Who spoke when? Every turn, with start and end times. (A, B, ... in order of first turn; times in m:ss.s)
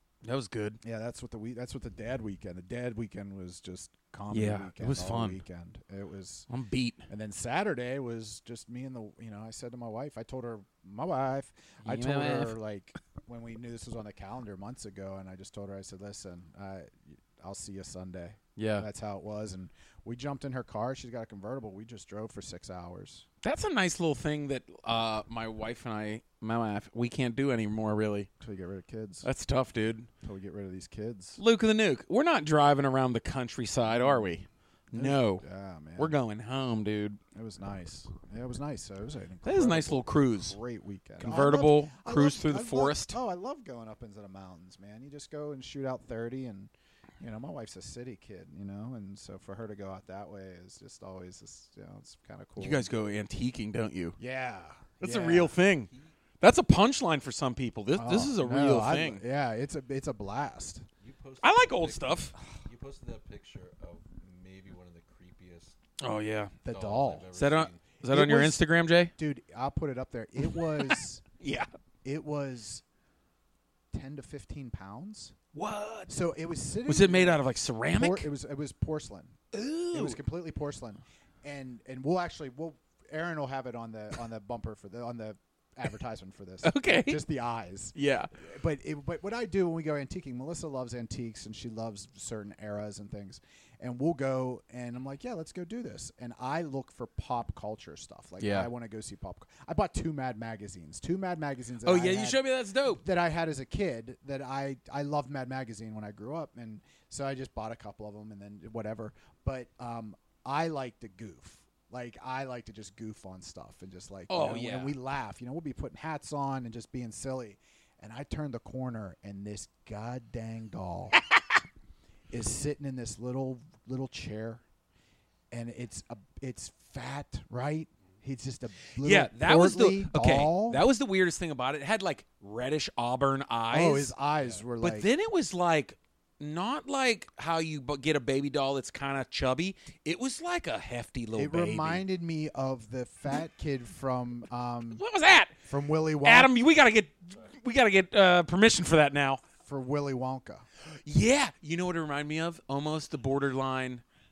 0:00.2-0:00.8 A
0:00.8-0:06.5 B
0:04.3-0:05.4 A
0:06.5-0:07.0 A
0:07.1-0:23.2 B
0:11.8-0:12.5 A
0:18.6-0:18.9 A
0:23.4-0:28.3 A
0:28.4-0:29.3 B
0:29.2-0:30.1 A
0:30.2-0:31.4 B
0:31.4-0:35.4 A
0:33.9-0:34.3 B
0:34.9-0:36.2 B
0:36.0-0:37.2 A
0:37.3-0:52.9 B
0:39.4-0:40.6 A
0:41.2-0:43.2 A
0:52.6-0:54.2 A
0:54.2-0:55.5 B
0:55.0-0:59.2 A
0:55.6-0:56.2 C
0:57.9-1:00.8 B
1:01.0-1:05.8 C
1:01.4-1:02.3 A
1:06.0-1:06.5 A
1:06.6-1:07.3 B
1:06.6-1:07.8 C
1:07.3-1:09.1 A
1:08.0-1:08.6 B
1:09.2-1:11.2 B
1:10.6-1:11.7 A
1:12.0-1:12.8 B
1:13.9-1:15.3 B
1:15.5-1:16.2 A
1:16.1-1:17.4 B
1:16.8-1:18.3 A
1:17.9-1:19.4 B
1:19.5-1:20.2 A
1:19.9-2:01.2 B
1:26.6-1:27.2 A
1:27.9-1:28.3 A
1:38.4-1:38.7 A
1:41.8-1:43.0 A
1:54.3-1:55.0 A
2:02.3-2:04.6 B
2:05.5-2:10.8 B
2:09.0-2:14.1 A
2:13.7-2:15.1 B
2:14.8-2:22.0 A
2:21.3-2:25.0 B
2:24.9-2:25.5 A
2:25.6-2:26.5 B
2:26.2-2:29.4 A
2:29.6-2:30.6 B
2:30.9-2:34.0 A